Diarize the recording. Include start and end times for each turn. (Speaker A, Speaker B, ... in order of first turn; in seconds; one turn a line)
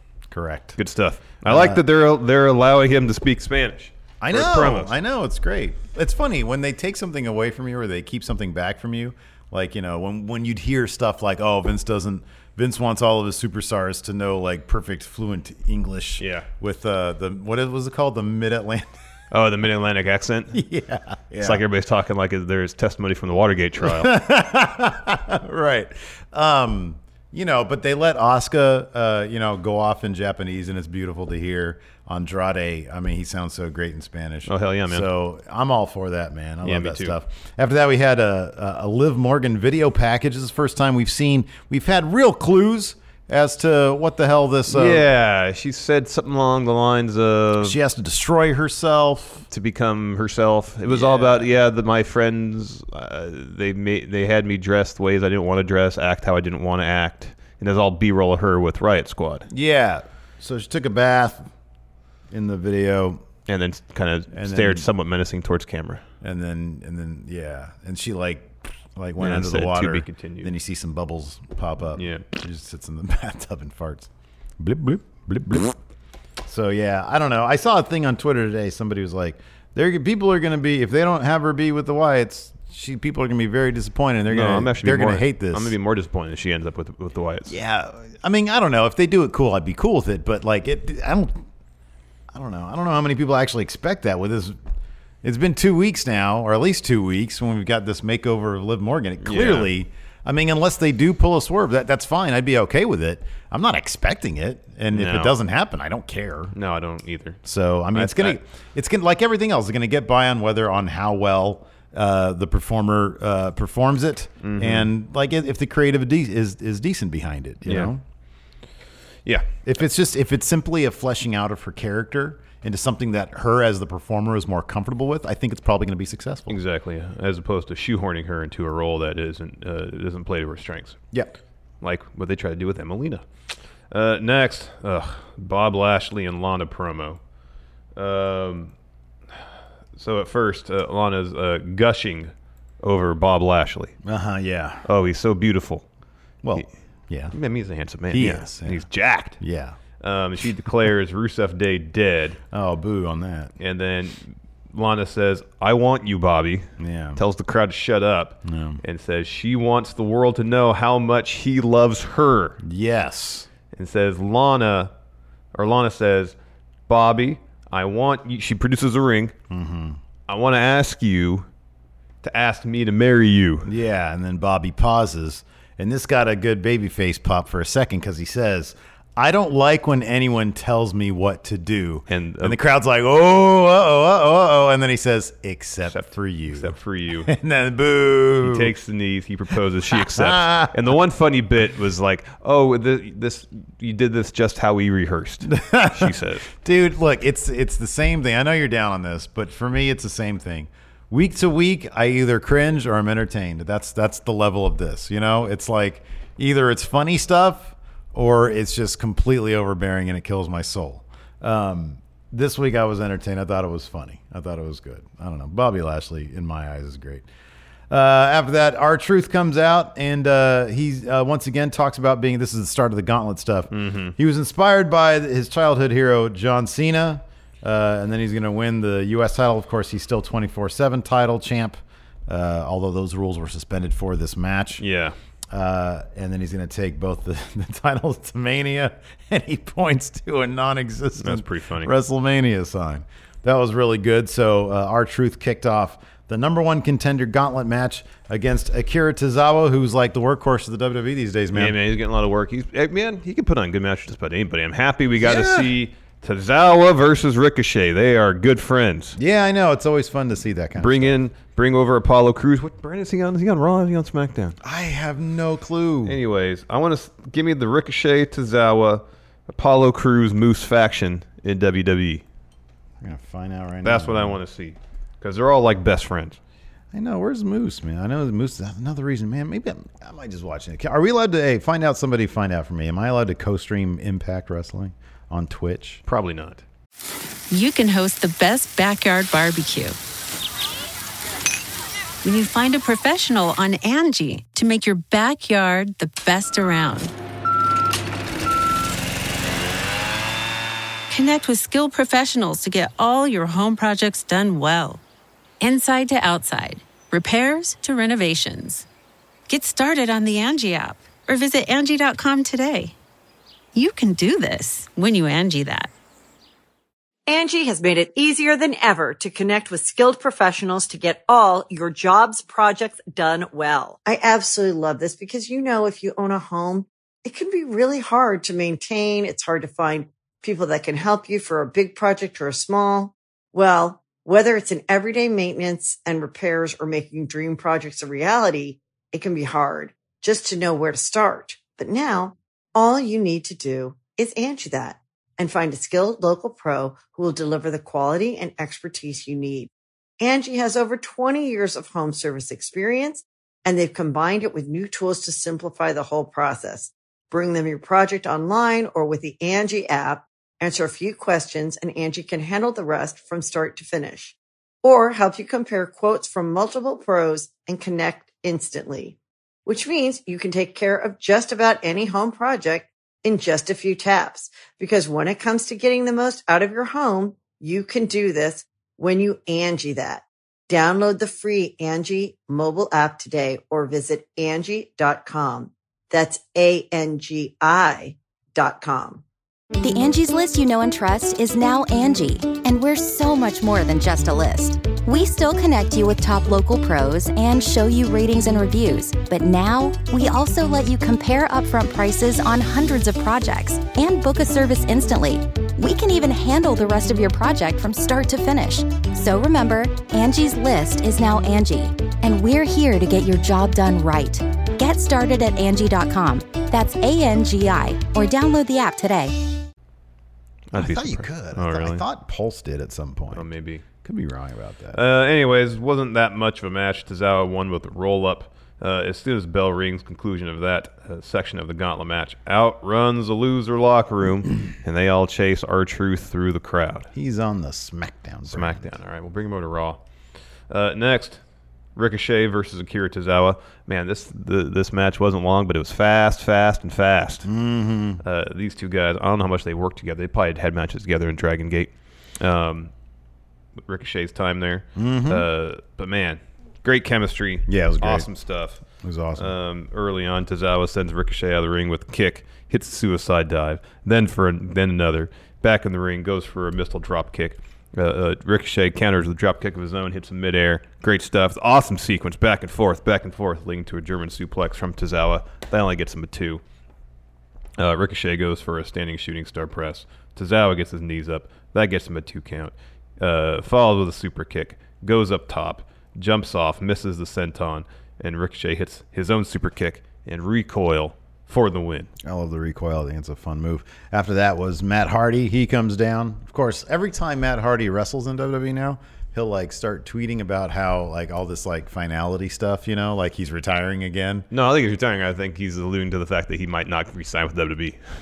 Speaker A: 0.3-0.8
Speaker B: 0.8-5.0
Speaker A: 1.4-1.8
Speaker A: 4.2-18.9
Speaker B: 16.2-16.5
Speaker B: 19.3-20.6
Speaker A: 20.5-21.6
Speaker B: 21.4-24.1
Speaker A: 23.8-45.1
Speaker B: 34.5-35.1
Speaker B: 36.6-37.1
Speaker B: 44.7-47.8
Speaker A: 47.6-49.5
Speaker B: 49.5-59.5
Speaker A: 50.9-51.5
Speaker A: 59.5-61.5
Speaker A: 62.3-63.2
Speaker B: 63.5-66.0
Speaker A: 64.3-64.9
Speaker A: 66.2-75.8
Speaker B: 69.2-70.5
Speaker B: 72.0-72.2
Speaker A: 76.5-85.8
Speaker B: 84.3-87.5
Speaker A: 87.5-91.4
Speaker A: 92.3-94.6
Speaker A: 95.2-106.5
Speaker B: 99.2-99.7
Speaker B: 104.9-105.4
Speaker B: 106.5-107.4
Speaker A: 107.5-118.0
Speaker B: 107.9-108.4
Speaker B: 114.4-114.9
Speaker B: 117.7-117.9
Speaker B: 119.3-119.6
Speaker A: 119.7-126.6
Speaker B: 126.5-131.0
Speaker B: 131.8-133.2
Speaker B: 133.9-137.2
Speaker B: 137.9-138.7
Speaker B: 140.0-142.3
Speaker B: 142.8-143.9
Speaker A: 144.0-144.8
Speaker B: 144.8-145.8
Speaker A: 146.4-147.4
Speaker B: 147.3-149.4
Speaker A: 148.1-148.9
Speaker A: 149.4-149.8
Speaker B: 150.0-152.4
Speaker A: 152.5-153.5
Speaker B: 153.6-162.6
Speaker A: 156.8-157.2
Speaker A: 158.4-158.8
Speaker A: 162.6-163.5
Speaker B: 163.7-164.9
Speaker B: 165.6-166.3
Speaker B: 166.9-169.3
Speaker A: 169.5-170.0
Speaker B: 170.3-171.5
Speaker B: 172.2-173.7
Speaker A: 173.7-188.7
Speaker B: 182.1-182.6
Speaker B: 185.9-187.3
Speaker B: 188.4-196.5
Speaker A: 189.9-190.8
Speaker A: 195.4-217.3
Speaker A: 217.9-234.8
Speaker B: 223.7-224.2
Speaker B: 234.8-235.2
Speaker A: 235.5-251.8
Speaker B: 241.2-241.9
Speaker B: 251.5-259.2
Speaker A: 255.2-255.7
Speaker A: 259.2-261.2
Speaker B: 260.8-264.6
Speaker A: 264.6-266.2
Speaker B: 266.1-272.2
Speaker A: 273.0-274.4
Speaker B: 273.8-276.4
Speaker A: 276.9-286.0
Speaker B: 286.1-286.6
Speaker C: 287.5-290.0
Speaker C: 292.2-297.1
Speaker C: 301.1-305.0
Speaker C: 305.6-308.9
Speaker C: 309.5-312.9
Speaker C: 313.7-315.9
Speaker D: 317.3-349.7
Speaker D: 350.2-389.2
Speaker E: 389.8-419.4
Speaker B: 420.7-422.1
Speaker A: 420.7-423.5
Speaker B: 423.3-423.9
Speaker A: 424.0-425.0
Speaker B: 424.9-437.1
Speaker A: 437.1-438.9
Speaker B: 438.5-440.0
Speaker B: 440.7-441.4
Speaker B: 442.0-447.5
Speaker A: 447.4-448.2
Speaker B: 448.2-452.9
Speaker B: 453.9-458.8
Speaker A: 455.0-455.5
Speaker A: 457.7-458.3
Speaker A: 459.0-459.6
Speaker B: 459.4-476.6
Speaker B: 477.8-492.1
Speaker A: 492.2-504.5
Speaker B: 504.5-508.0